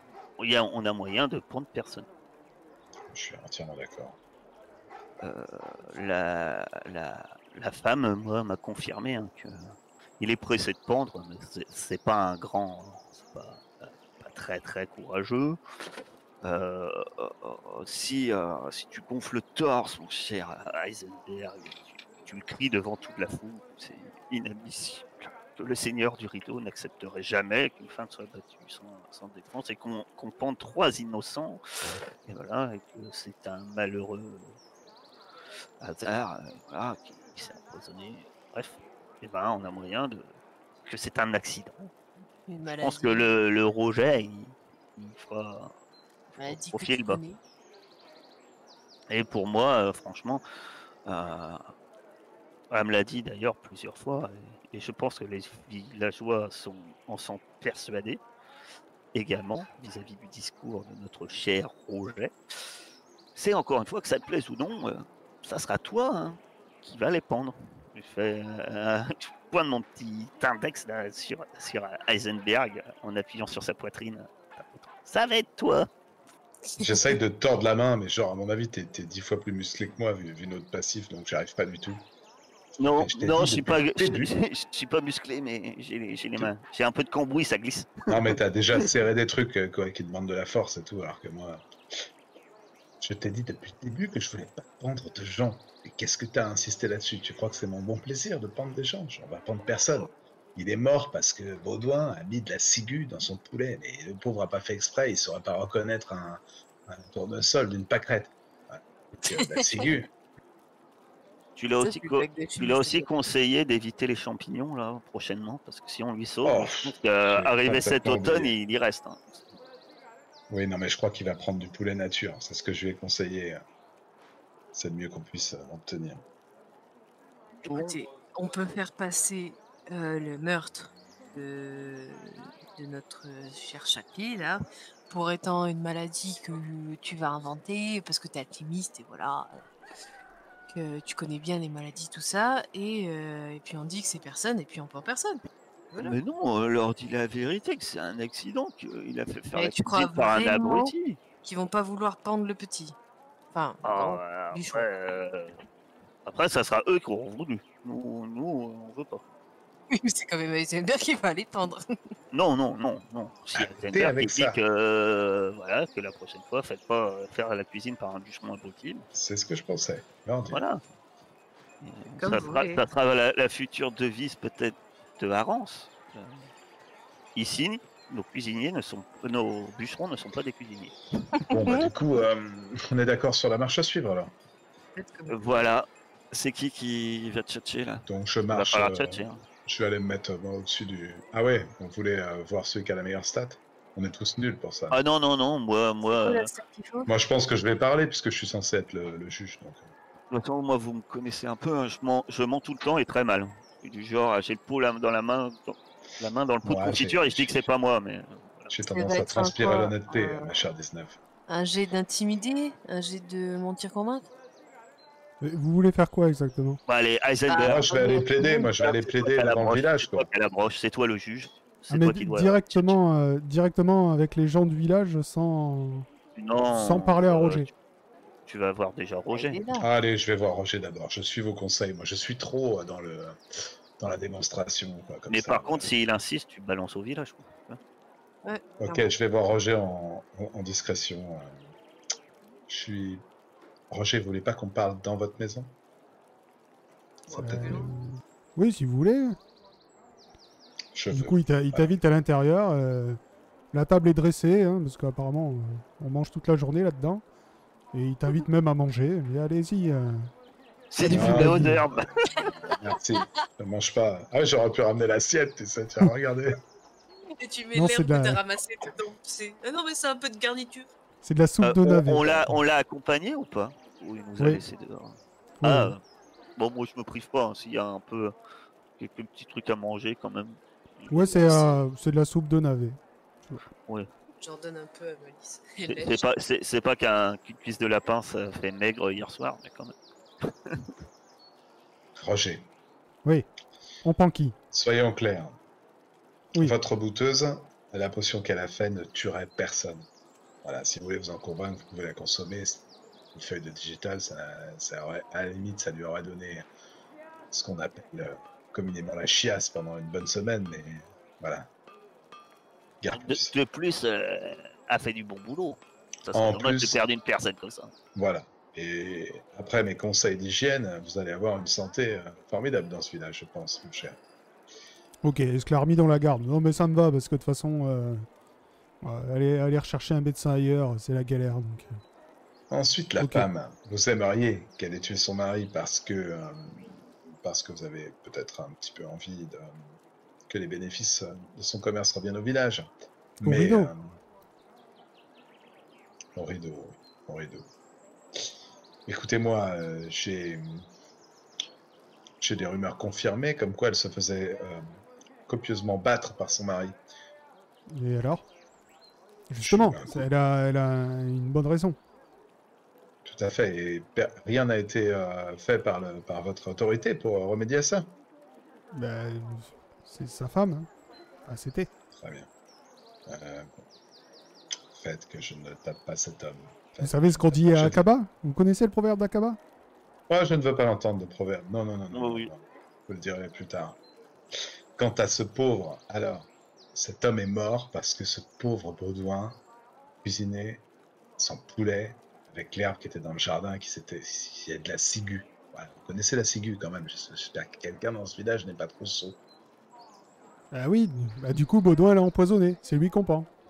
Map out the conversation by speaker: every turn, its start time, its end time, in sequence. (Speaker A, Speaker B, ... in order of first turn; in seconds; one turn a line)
Speaker A: 0.4-2.1
Speaker B: 3.1-4.2
Speaker A: 5.2-15.6
Speaker A: 16.4-31.6
Speaker A: 32.3-34.6
Speaker A: 35.8-40.3
Speaker A: 40.8-41.9
Speaker C: 42.5-43.3
Speaker A: 42.8-45.7
Speaker A: 46.4-47.2
Speaker C: 46.4-47.4
Speaker A: 49.1-50.4
Speaker A: 51.1-51.7
Speaker A: 52.7-58.2
Speaker A: 59.1-62.3
Speaker A: 63.4-74.3
Speaker A: 75.0-75.9
Speaker C: 76.7-77.2
Speaker B: 76.8-82.0
Speaker A: 82.8-88.9
Speaker B: 82.8-84.3
Speaker B: 88.1-91.7
Speaker B: 93.0-110.1
Speaker C: 109.3-110.0
Speaker A: 111.6-119.5
Speaker C: 111.8-113.1
Speaker B: 116.4-118.5
Speaker B: 120.5-123.6
Speaker B: 124.7-126.2
Speaker A: 127.6-128.0
Speaker C: 127.6-139.6
Speaker C: 140.7-146.2
Speaker A: 146.0-151.2
Speaker C: 149.6-150.9
Speaker C: 151.4-152.9
Speaker C: 153.5-154.9
Speaker A: 153.8-155.6
Speaker A: 156.2-159.2
Speaker C: 159.9-161.8
Speaker A: 162.3-169.0
Speaker B: 163.6-164.6
Speaker B: 169.1-170.6
Speaker A: 170.5-170.8
Speaker A: 171.8-176.4
Speaker C: 172.2-172.8
Speaker A: 177.3-180.9
Speaker C: 181.4-181.9
Speaker B: 181.5-184.3
Speaker C: 184.9-185.7
Speaker A: 185.3-189.4
Speaker B: 188.1-195.0
Speaker A: 194.9-196.5
Speaker C: 196.1-197.1
Speaker B: 197.1-199.9
Speaker A: 200.3-208.7
Speaker B: 206.6-207.7
Speaker B: 208.7-211.2
Speaker C: 208.9-210.5
Speaker C: 211.5-214.3
Speaker D: 215.4-216.8
Speaker A: 216.9-217.9
Speaker C: 217.5-219.2
Speaker B: 217.6-220.3
Speaker A: 219.2-223.0
Speaker D: 221.9-226.1
Speaker A: 226.3-227.7
Speaker D: 226.7-227.7
Speaker A: 228.5-229.6
Speaker C: 229.3-229.9
Speaker B: 229.8-233.4
Speaker B: 234.0-235.9
Speaker A: 235.3-237.8
Speaker C: 238.4-239.1
Speaker B: 238.8-241.6
Speaker B: 242.7-243.2
Speaker B: 243.9-245.7
Speaker B: 247.3-247.8
Speaker C: 247.3-247.8
Speaker D: 247.4-249.4
Speaker B: 250.9-251.9
Speaker D: 251.1-253.2
Speaker D: 253.7-257.2
Speaker D: 257.9-260.3
Speaker A: 260.9-262.5
Speaker D: 261.0-261.9
Speaker B: 261.1-266.6
Speaker C: 267.4-270.9
Speaker D: 267.7-268.4
Speaker D: 271.2-272.6
Speaker A: 271.6-276.0
Speaker D: 275.6-275.9
Speaker A: 276.6-278.3
Speaker A: 279.0-281.8
Speaker D: 281.1-283.6
Speaker C: 284.4-286.3
Speaker A: 285.8-290.9
Speaker B: 292.1-292.7
Speaker D: 294.0-294.5
Speaker B: 294.7-295.6
Speaker B: 296.6-300.1
Speaker B: 300.6-306.7
Speaker B: 307.5-311.7
Speaker B: 313.0-313.5
Speaker A: 313.1-317.9
Speaker B: 316.3-317.0
Speaker B: 318.1-324.2
Speaker D: 325.2-328.3
Speaker D: 329.0-332.0
Speaker B: 332.7-339.7
Speaker D: 333.2-333.5
Speaker B: 340.5-344.1
Speaker D: 343.4-343.9
Speaker B: 346.3-347.7
Speaker B: 349.1-350.8
Speaker B: 352.4-354.8
Speaker B: 355.5-357.0
Speaker D: 357.9-358.4
Speaker D: 359.5-362.0
Speaker B: 359.6-360.3
Speaker B: 363.2-368.1
Speaker D: 368.9-370.9
Speaker D: 371.4-371.9
Speaker B: 372.1-372.5
Speaker B: 373.3-373.9
Speaker B: 374.9-378.1
Speaker D: 377.0-379.6
Speaker B: 380.3-384.0
Speaker A: 382.1-382.5
Speaker B: 385.0-389.6
Speaker B: 390.2-390.8
Speaker B: 391.4-399.4
Speaker D: 400.7-403.5